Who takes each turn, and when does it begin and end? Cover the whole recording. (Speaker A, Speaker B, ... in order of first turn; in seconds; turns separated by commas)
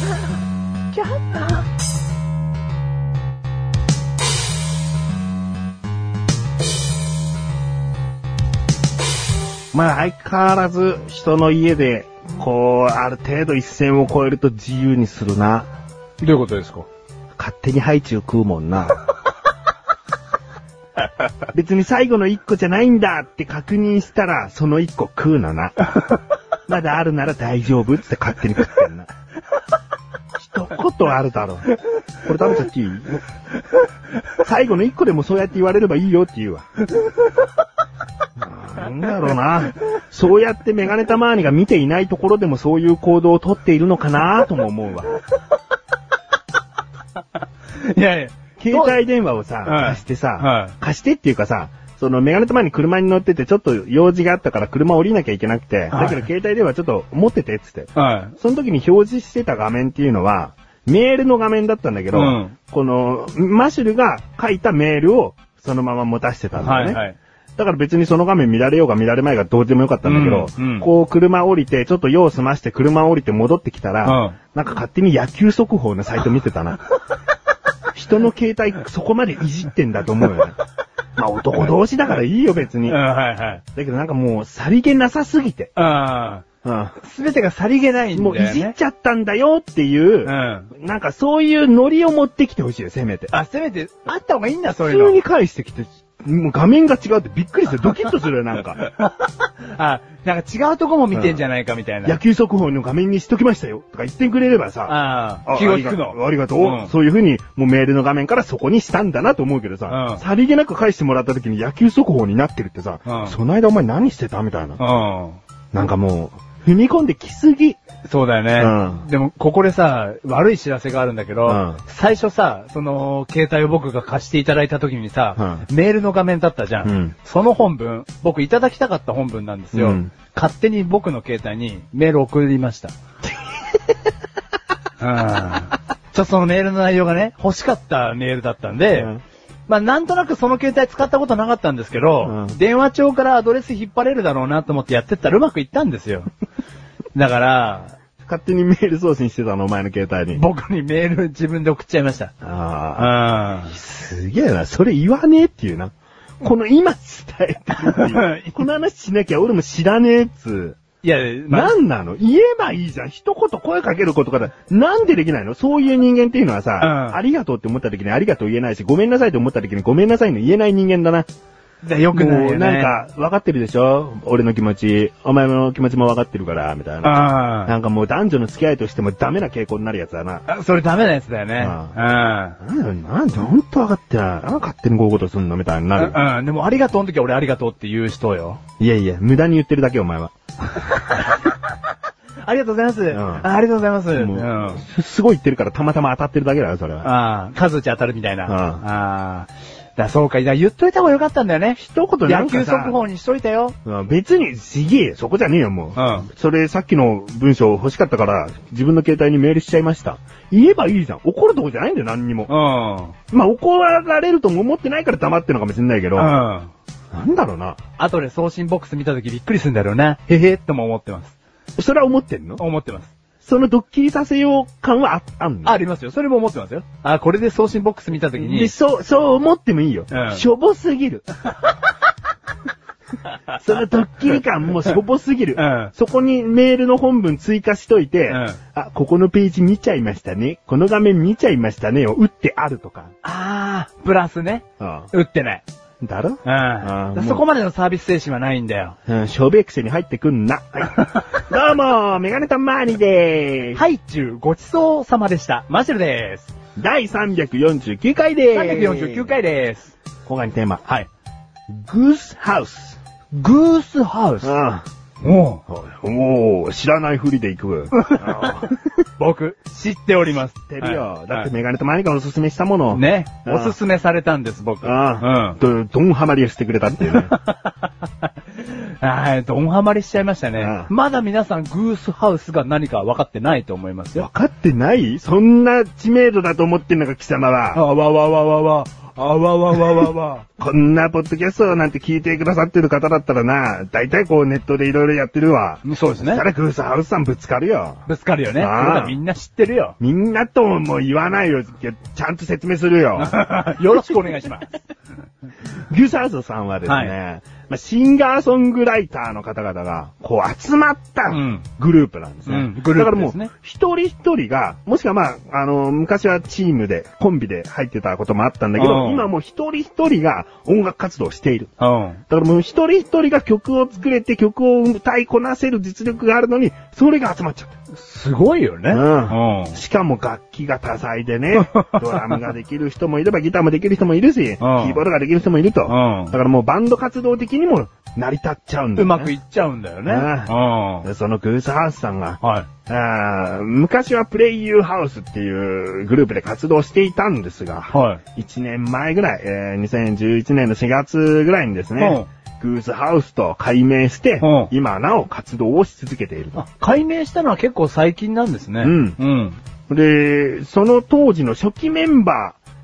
Speaker A: 0.9-1.6, Speaker B: 9.7-15.7, Speaker A: 16.2-16.9, Speaker B: 17.4-19.0, Speaker B: 21.5-25.8, Speaker B: 26.7-29.1, Speaker B: 30.4-31.7, Speaker B: 32.2-33.2, Speaker B: 34.4-36.6, Speaker B: 38.4-45.1, Speaker A: 47.8-49.0, Speaker B: 48.6-67.0, Speaker A: 49.6-50.8, Speaker A: 55.9-56.2, Speaker A: 58.0-58.3, Speaker A: 62.1-62.5, Speaker A: 66.6-67.2, Speaker B: 67.6-76.8, Speaker A: 70.0-70.9, Speaker A: 74.0-74.4, Speaker B: 78.0-80.6, Speaker B: 81.2-83.0, Speaker A: 82.9-83.6, Speaker B: 83.7-85.7, Speaker A: 85.8-86.5, Speaker B: 86.6-87.0, Speaker A: 87.0-88.7, Speaker B: 88.1-93.3, Speaker A: 90.2-90.7, Speaker A: 93.3-95.2, Speaker B: 94.8-98.8, Speaker A: 98.8-102.2, Speaker B: 101.1-101.4, Speaker B: 102.0-114.8, Speaker A: 104.9-106.9, Speaker A: 109.9-110.2, Speaker A: 113.1-113.3, Speaker A: 114.8-115.4, Speaker B: 115.7-117.8, Speaker A: 118.0-132.9, Speaker B: 118.6-119.1, Speaker B: 121.5-121.8, Speaker B: 125.4-125.6, Speaker B: 126.8-127.1, Speaker B: 129.7-130.1, Speaker A: 135.0-139.1, Speaker B: 138.9-139.2, Speaker A: 139.7-146.3, Speaker B: 142.2-142.5, Speaker A: 147.1-147.9, Speaker B: 148.2-150.4, Speaker A: 150.3-152.3, Speaker B: 152.4-153.1, Speaker A: 153.0-153.7, Speaker B: 153.6-160.8, Speaker A: 157.9-158.6, Speaker A: 161.0-161.8, Speaker B: 161.5-171.3, Speaker A: 166.8-167.2, Speaker A: 171.8-172.9, Speaker B: 172.1-180.4, Speaker A: 177.0-177.7, Speaker A: 180.5-182.6, Speaker B: 181.6-181.9, Speaker B: 182.6-186.2, Speaker A: 185.9-188.6, Speaker B: 188.8-190.3, Speaker A: 190.9-191.5, Speaker A: 192.4-194.8, Speaker B: 193.1-193.5, Speaker B: 194.1-197.1, Speaker A: 197.0-203.7, Speaker B: 198.5-198.8, Speaker B: 201.8-203.0, Speaker B: 203.8-212.5, Speaker A: 205.9-206.3, Speaker A: 212.5-213.1, Speaker B: 213.3-216.3, Speaker A: 216.2-216.7, Speaker B: 217.1-217.8, Speaker A: 218.0-221.3, Speaker B: 221.8-222.6, Speaker A: 222.6-223.1, Speaker B: 223.4-225.8, Speaker A: 225.6-228.7, Speaker B: 228.3-231.2, Speaker A: 230.1-230.4, Speaker B: 233.6-243.1, Speaker A: 235.6-235.9, Speaker A: 238.3-238.6, Speaker A: 243.2-245.6, Speaker B: 244.8-245.1, Speaker B: 246.0-247.4, Speaker A: 246.4-248.9, Speaker B: 249.1-253.8, Speaker A: 253.8-256.5, Speaker B: 256.8-259.4, Speaker A: 258.5-259.9, Speaker B: 260.2-261.1, Speaker B: 261.7-263.0, Speaker A: 263.3-264.5, Speaker B: 264.4-264.9, Speaker A: 265.2-265.6, Speaker B: 265.7-268.9, Speaker A: 267.9-268.6, Speaker A: 269.2-271.5, Speaker B: 270.6-273.8, Speaker A: 272.9-275.6, Speaker B: 274.8-277.3, Speaker A: 277.1-284.3, Speaker B: 280.6-280.9, Speaker B: 284.1-287.8, Speaker A: 287.7-290.4, Speaker B: 290.6-298.0, Speaker A: 295.8-296.4, Speaker A: 298.1-299.9, Speaker B: 298.6-299.1, Speaker B: 300.0-303.4, Speaker A: 303.1-304.8, Speaker B: 305.9-321.7, Speaker A: 306.9-307.1, Speaker A: 311.3-311.6, Speaker A: 312.4-313.5, Speaker A: 318.8-319.3, Speaker A: 321.8-322.2, Speaker B: 322.3-327.8, Speaker A: 327.9-329.8, Speaker B: 328.9-339.3, Speaker A: 331.6-332.4, Speaker A: 334.6-335.0, Speaker A: 335.9-336.3, Speaker A: 338.9-341.1, Speaker B: 340.1-340.5, Speaker B: 341.0-356.6, Speaker A: 342.4-342.7, Speaker A: 347.9-348.2, Speaker A: 352.0-352.3, Speaker A: 354.4-354.7, Speaker A: 356.6-359.6, Speaker B: 358.8-359.2, Speaker B: 359.9-362.6